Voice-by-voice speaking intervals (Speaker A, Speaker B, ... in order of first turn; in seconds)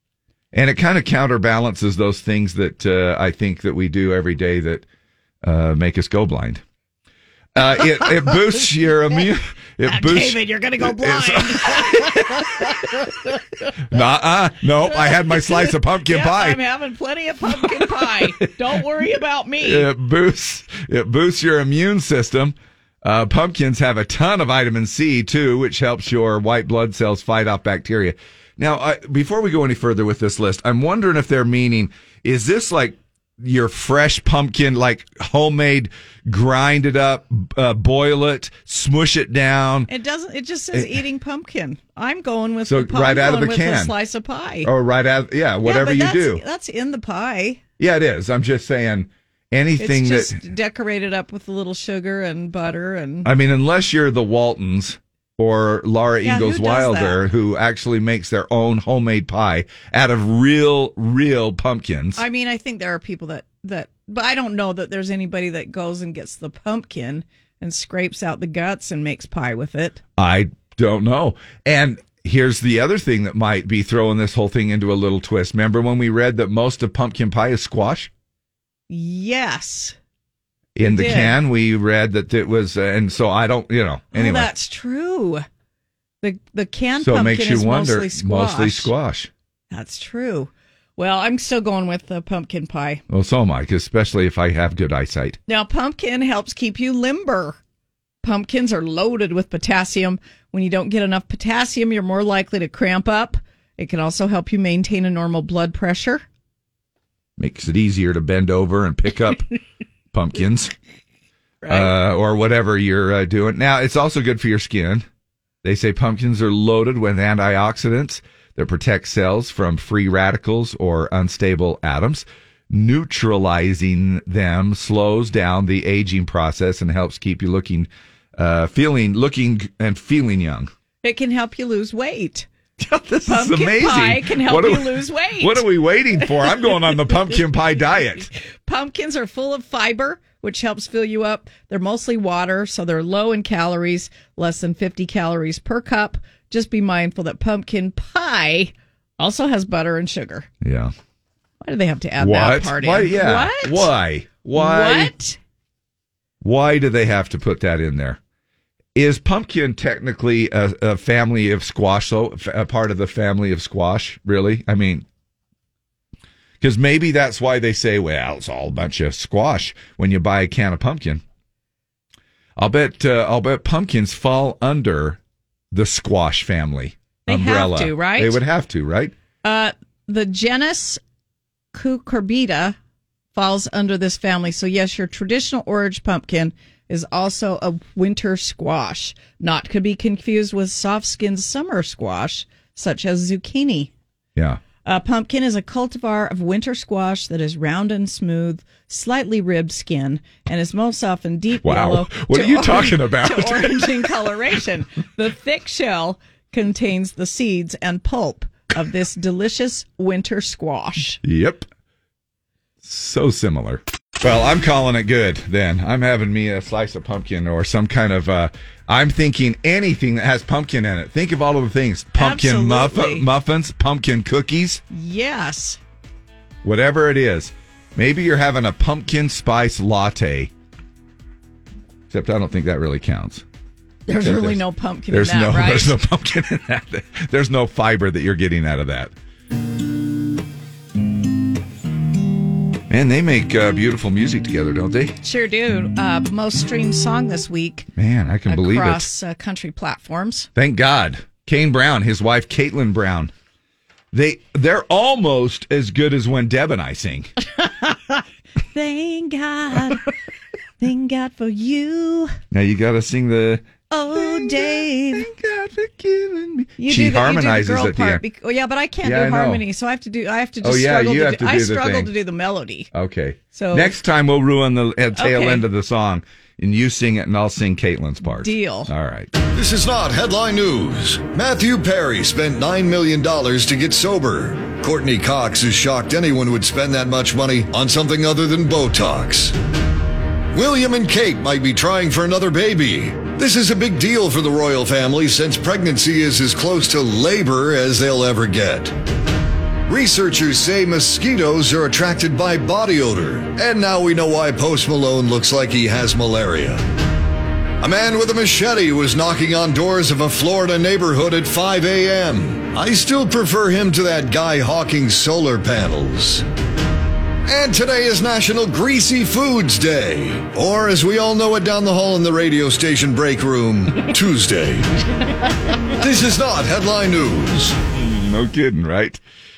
Speaker A: 0.5-4.8, 5.4-6.6, 7.5-12.2, 13.9-16.6, 17.5-18.4, 19.6-39.9, 42.6-43.9, 44.6-46.4, 47.8-50.4, 53.2-62.2, 70.2-78.1, 80.8-84.5, 87.0-89.3, 93.1-95.4, 107.4-109.4, 110.1-110.7, 111.7-115.0, 115.6-130.7, 132.8-138.3, 150.6-150.9, 152.2-155.1, 156.4-158.2, 158.9-165.1, 166.6-171.2, 172.6-175.2, 175.7-179.1, 201.6-204.1, 211.2-211.7, 212.8-224.8, 226.6-230.5, 232.1-233.4, 234.2-239.1, 242.9-245.1, 247.9-249.1, 250.6-253.3, 254.1-257.3, 262.5-268.2, 269.0-269.6, 270.6-272.1, 272.9-279.3, 327.9-329.2
Speaker B: 7.8-8.3, 9.8-13.1, 14.9-19.9, 39.9-44.7, 45.6-47.6, 49.8-53.3, 56.2-57.2, 62.1-70.0, 78.9-80.0, 80.8-81.3, 84.1-85.4, 86.2-88.9, 89.7-93.0, 95.5-97.6, 98.2-106.2, 131.0-132.5, 133.2-135.6, 138.7-150.5, 151.6-153.9, 154.5-155.4, 177.3-178.4, 179.4-181.0, 181.7-182.8, 183.3-193.9, 194.8-211.2, 222.2-223.2, 224.9-225.8, 234.1-235.9, 245.2-247.9, 248.5-250.5, 257.6-258.2, 258.7-260.0, 260.8-262.4, 263.9-265.3, 266.8-272.9, 273.5-273.9, 275.1-275.6, 278.3-278.9
Speaker C: 279.5-289.5, 290.5-298.9, 299.9-306.8, 307.8-316.4, 317.4-324.9, 326.0-327.8